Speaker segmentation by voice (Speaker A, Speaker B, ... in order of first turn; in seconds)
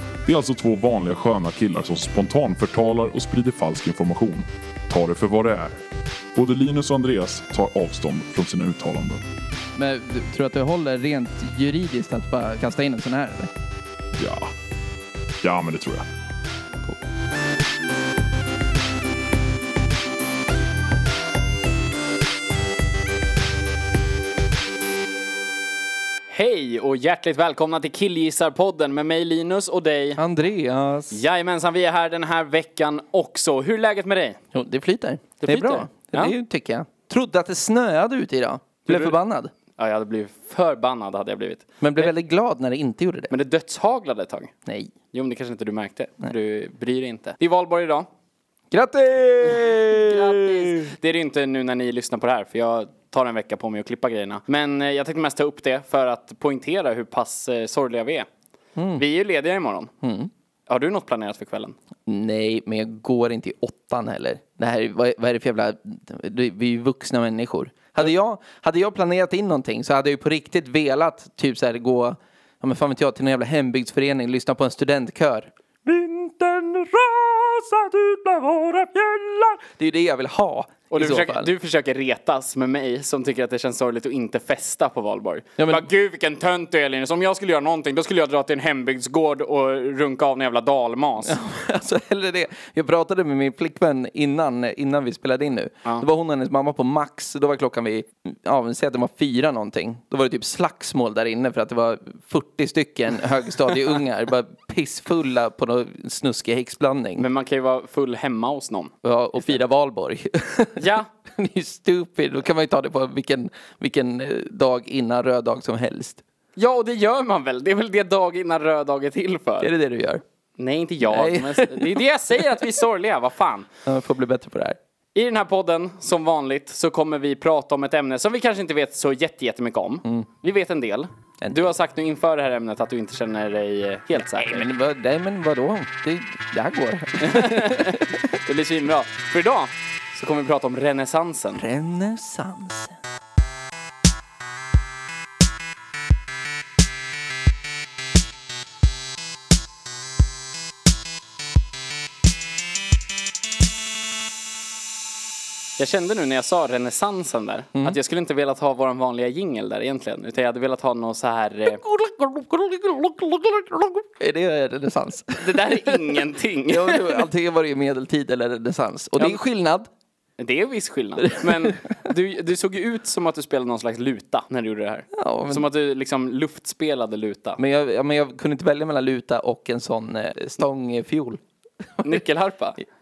Speaker A: 0.2-5.8, 6.3-9.2, 14.2-14.5, 15.4-16.1
Speaker B: 9.8-13.5, 30.2-31.2, 34.5-39.5, 41.8-43.3, 44.6-44.9, 48.7-50.9, 58.8-59.0, 60.0-60.3, 62.0-81.5, 85.6-85.8, 91.2-107.2, 109.0-116.2, 119.6-120.2, 121.0-122.6, 123.8-124.8, 131.4-131.7, 134.2-138.1, 141.6-143.0, 161.7-169.9, 171.3-171.7, 175.1-175.7, 177.6-181.4, 181.9-182.2
Speaker C: 26.3-30.2, 31.1-34.4, 35.4-36.3, 38.9-39.1, 39.8-42.1, 43.3-44.5, 45.1-48.0, 49.4-58.3, 59.0-59.9, 60.7-61.8, 80.9-91.4, 107.2-109.5, 110.8-111.1, 116.5-119.7, 120.6-123.7, 125.1-134.6, 137.2-141.6, 155.8-161.8, 165.4-167.3, 170.4-177.6, 182.0-182.8